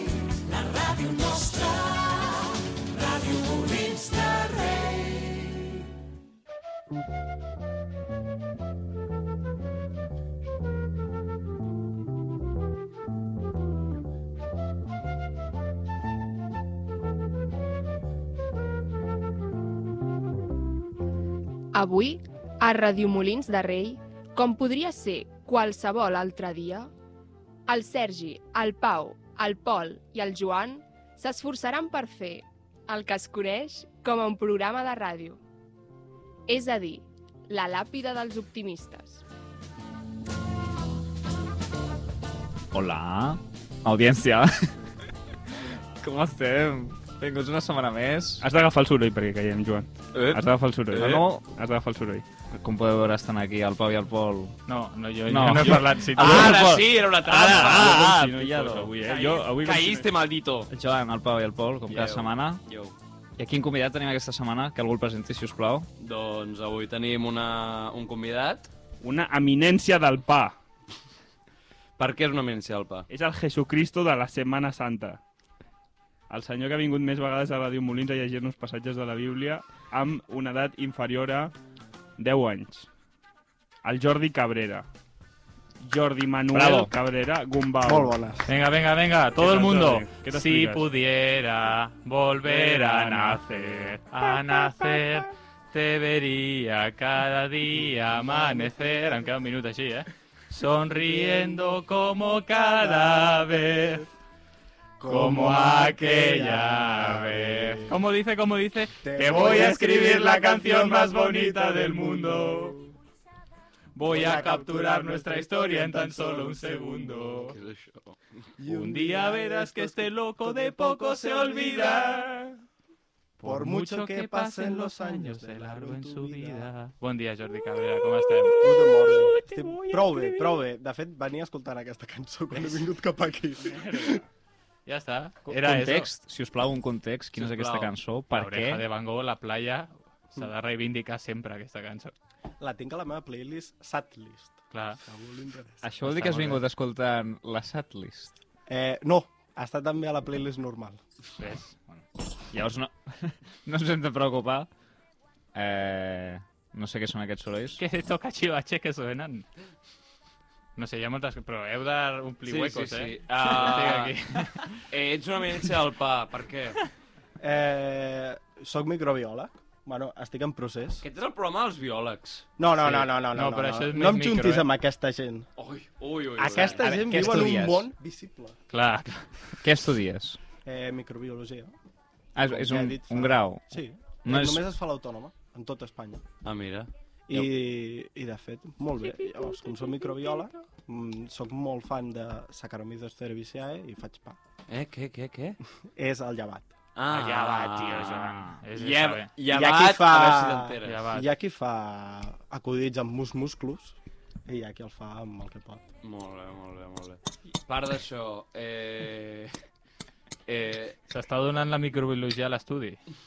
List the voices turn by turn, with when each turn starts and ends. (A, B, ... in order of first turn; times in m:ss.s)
0:00.6-0:02.3 A
0:03.3-0:05.2 A
0:21.7-0:26.9 A
0:27.7-0:35.4 A
0:36.5-0:39.2 A
0:42.7-0:44.8 B
0:45.6-0:48.4 B
0:48.4-0:52.3 C
0:50.1-0:51.2 D
0:50.9-0:51.4 B
0:52.5-0:54.6 B
0:54.7-0:56.8 E
0:55.3-0:57.3 B
0:55.4-0:56.6 C
0:56.1-1:00.7 D
0:57.3-1:00.1 C
1:00.7-1:02.6 B
1:01.9-1:03.0 D
1:03.4-1:05.9 B
1:06.0-1:08.7 D
1:09.0-1:10.6 C
1:12.0-1:13.1 D
1:13.1-1:15.2 C
1:16.3-1:21.5 C
1:22.2-1:22.9 C
1:23.8-1:24.9 C
1:25.8-1:28.2 C
1:26.5-1:26.9 B
1:27.8-1:28.5 F
1:28.4-1:44.1 E
1:29.4-1:30.9 C
1:32.4-1:35.2 C
1:38.2-1:38.7 F
1:41.1-1:41.6 F
1:42.8-1:43.5 F
1:45.0-1:48.0 F
1:45.1-1:52.8 E
1:49.0-1:52.6 F
1:54.0-1:57.6 E
1:54.0-1:57.5 F
1:57.5-1:58.2 D
1:58.6-2:02.4 F
1:58.6-2:02.4 E
2:03.4-2:09.5 E
2:03.4-2:06.7 F
2:08.4-2:14.2 F
2:13.6-2:14.2 E
2:14.9-2:16.1 E
2:15.5-2:18.8 B
2:17.3-2:17.9 D
2:18.3-2:22.1 E
2:22.6-2:25.9 F
2:24.7-2:25.0 E
2:25.8-2:28.4 B
2:26.0-2:26.6 E
2:28.7-2:31.0 F
2:31.4-2:31.8 E
2:31.9-2:34.7 B
2:35.5-2:37.8 B
2:37.8-2:39.5 E
2:40.8-2:44.8 E
2:42.5-2:44.2 D
2:44.9-2:46.8 D
2:47.4-2:51.0 F
2:51.0-2:52.5 D
2:52.6-2:55.5 F
2:52.8-2:54.7 E
2:55.6-2:57.1 D
2:56.4-2:58.6 F
2:56.5-2:57.9 B
2:58.7-2:59.6 E
2:59.6-3:00.4 B
3:00.6-3:01.7 F
3:02.4-3:04.7 B
3:02.4-3:06.2 F
3:06.4-3:07.5 D
3:07.3-3:14.4 F
3:14.7-3:15.6 D
3:15.9-3:16.7 F
3:17.0-3:21.1 D
3:17.1-3:19.3 E
3:19.5-3:25.8 F
3:20.8-3:21.3 E
3:26.0-3:29.5 D
3:30.5-3:31.0 D
3:31.1-3:33.0 E